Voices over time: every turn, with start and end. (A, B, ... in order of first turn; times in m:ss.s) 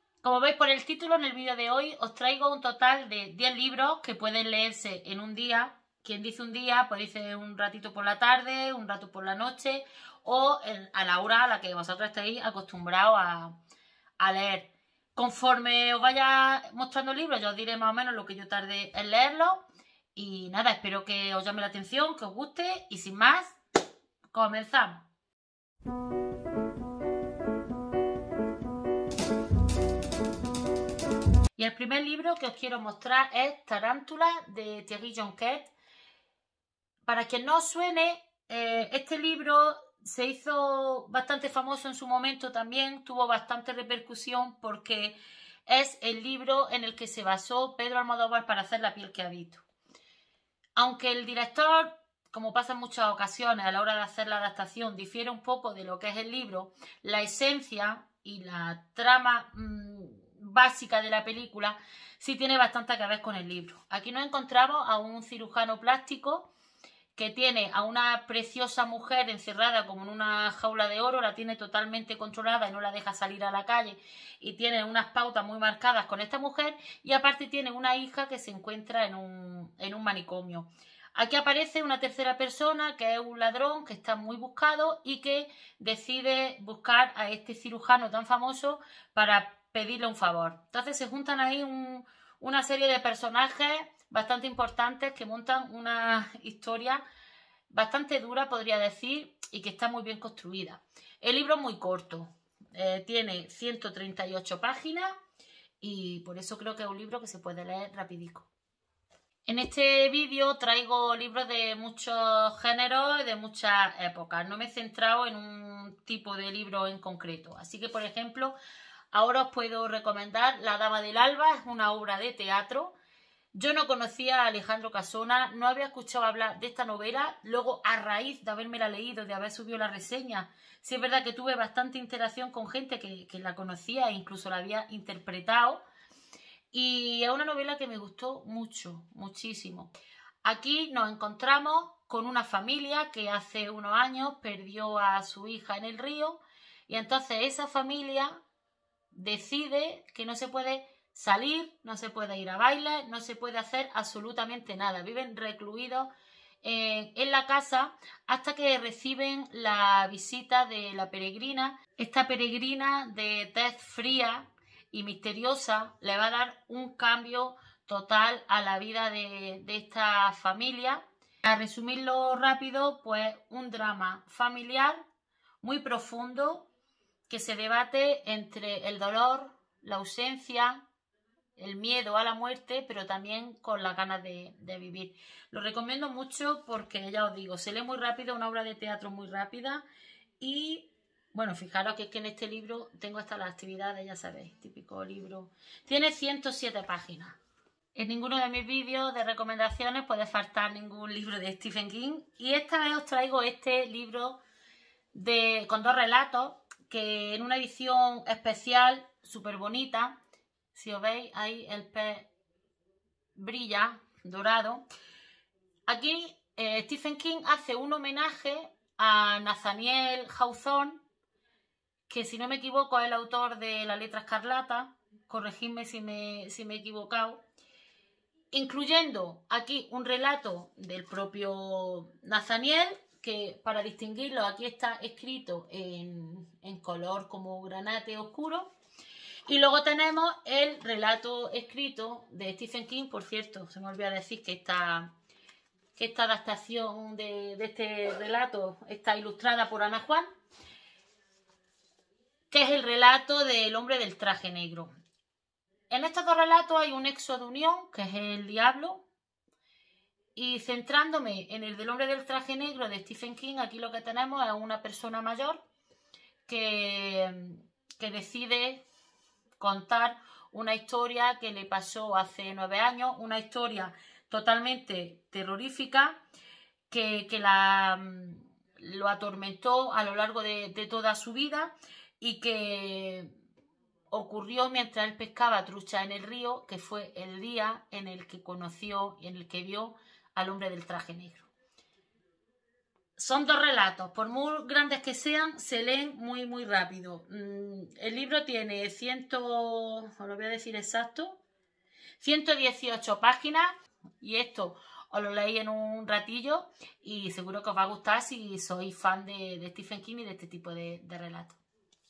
0:00.2-0:13.5 A
0:14.2-0:19.6 A
0:20.1-0:23.6 A
0:24.3-0:25.1 A
0:31.6-0:35.7 A
0:37.0-0:45.2 A
0:45.7-0:49.6 A
0:50.8-1:06.5 A
1:07.1-1:37.0 A
1:37.7-1:45.1 A
1:45.8-1:48.5 A
1:49.4-1:58.6 A
1:59.1-2:02.9 A
2:03.5-2:15.8 A
2:16.7-2:19.9 A
2:20.4-2:28.4 A
2:29.1-2:36.1 A
2:36.6-2:55.0 A
2:55.6-2:56.7 A
2:57.3-3:00.8 A
3:01.6-3:09.8 A
3:10.4-3:17.4 A
3:17.9-3:24.4 A
3:25.1-3:30.2 A
3:30.7-3:32.3 A
3:33.4-3:34.8 A
3:35.9-3:41.0 A
3:42.1-3:47.4 A
3:48.5-3:58.7 A
3:59.5-4:05.1 A
4:06.0-4:10.3 A
4:12.5-4:14.9 A
4:15.9-4:19.0 A
4:20.4-4:25.6 A
4:26.5-4:28.8 A
4:29.6-4:36.2 A
4:36.9-4:43.3 A
4:44.1-4:51.5 A
4:53.2-5:01.4 A
5:02.2-5:11.6 A